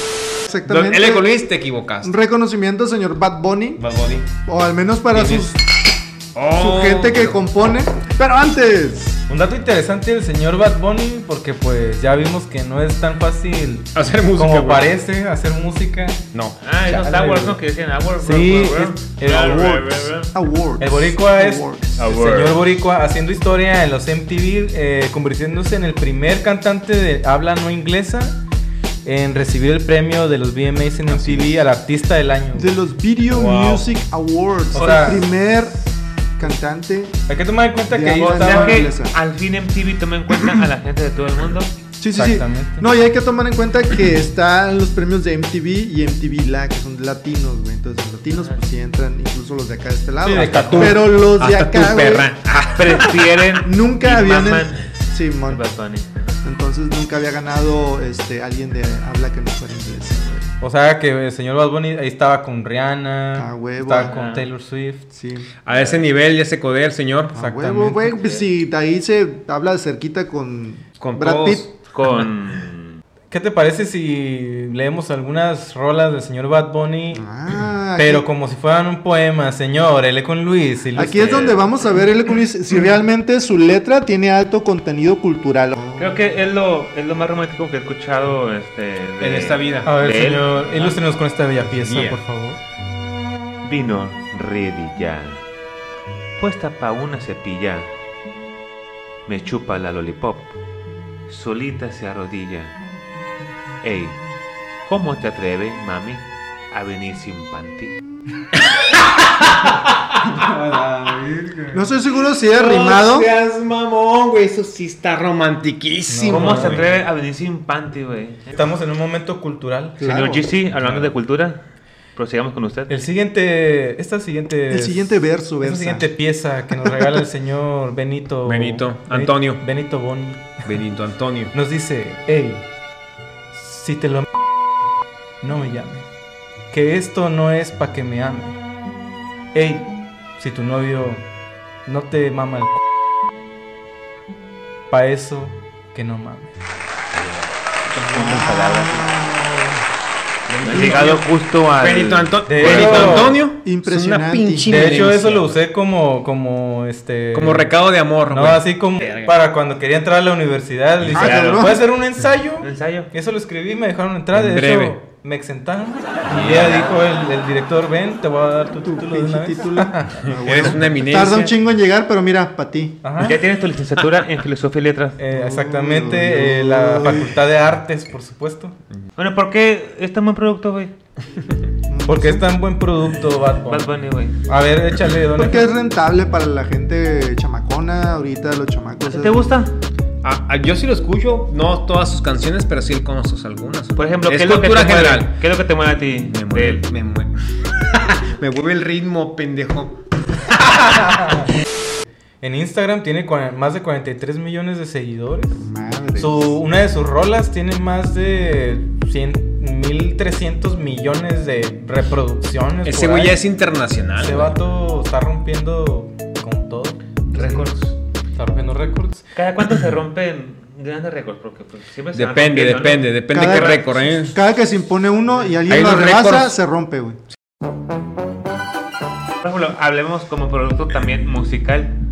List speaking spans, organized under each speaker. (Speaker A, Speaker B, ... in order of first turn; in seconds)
Speaker A: 0.4-1.3, 2.0-3.8, 4.5-5.6, 6.5-9.2, 20.3-21.9, 32.6-37.2, 37.9-39.1, 42.0-52.3, 53.6-55.6, 56.4-60.5, 63.4-64.1, 65.1-65.5, 67.3-71.7, 77.1-78.3, 80.9-86.2, 111.7-113.3, 120.0-120.5, 124.7-126.1, 126.8-127.2, 148.0-149.8, 150.7-151.2, 153.6-154.9, 161.1-161.8, 168.8-173.0, 175.3-177.4, 181.9-182.5, 185.4-189.5, 205.6-206.5, 217.3-217.7, 223.3-227.2
Speaker B: 0.7-2.1, 3.8-4.3, 5.1-5.5, 6.3-7.4, 13.9-14.9, 31.1-31.5, 33.3-33.8, 34.8-35.1, 50.3-53.1, 65.6-67.3, 71.0-71.7, 89.2-89.9, 91.6-92.2, 108.6-111.8, 112.5-116.9, 128.4-129.6, 130.7-131.5, 150.5-151.2, 151.8-155.6, 157.3-158.6, 164.3-165.0, 166.3-166.9, 170.4-171.5, 190.2-195.3, 196.3-200.0, 212.8-214.6, 222.1-224.3, 225.7-226.6
Speaker C: 9.3-16.2, 16.9-17.6, 18.2-20.1, 20.8-28.4, 29.0-32.7, 34.7-35.2, 37.3-38.8, 42.1-42.9, 50.2-51.0, 60.6-65.0, 67.3-68.1, 73.3-77.2, 78.0-81.4, 89.8-92.6, 116.1-116.8, 118.5-120.0, 122.9-130.6, 131.5-132.7, 133.5-134.3, 135.4-136.1, 136.7-138.6, 139.5-141.2, 141.8-142.8, 144.9-146.5, 152.5-153.4, 154.7-157.7, 158.3-170.2, 173.0-173.4, 175.2-178.7, 182.1-183.9, 184.4-185.7, 201.0-201.5, 202.4-205.6, 206.2-213.4, 214.2-217.6, 218.3-219.2
Speaker D: 16.6-20.3, 22.0-22.6, 38.2-41.7, 52.7-54.8, 55.5-56.4, 64.0-64.5, 65.7-66.1, 68.2-68.4, 71.9-73.0, 81.0-81.7, 86.0-91.0, 93.6-95.4, 96.4-97.9, 99.3-100.5, 101.3-102.7, 103.8-104.2, 104.8-108.0, 116.3-118.5, 120.0-121.6, 122.2-122.9, 147.1-149.1, 150.5-153.4, 159.0-159.3, 161.1-161.8, 162.6-163.1, 173.2-175.2, 179.2-180.9, 183.7-184.4, 189.1-189.7, 193.9-196.8, 217.3-217.9, 219.3-224.0, 229.4-231.9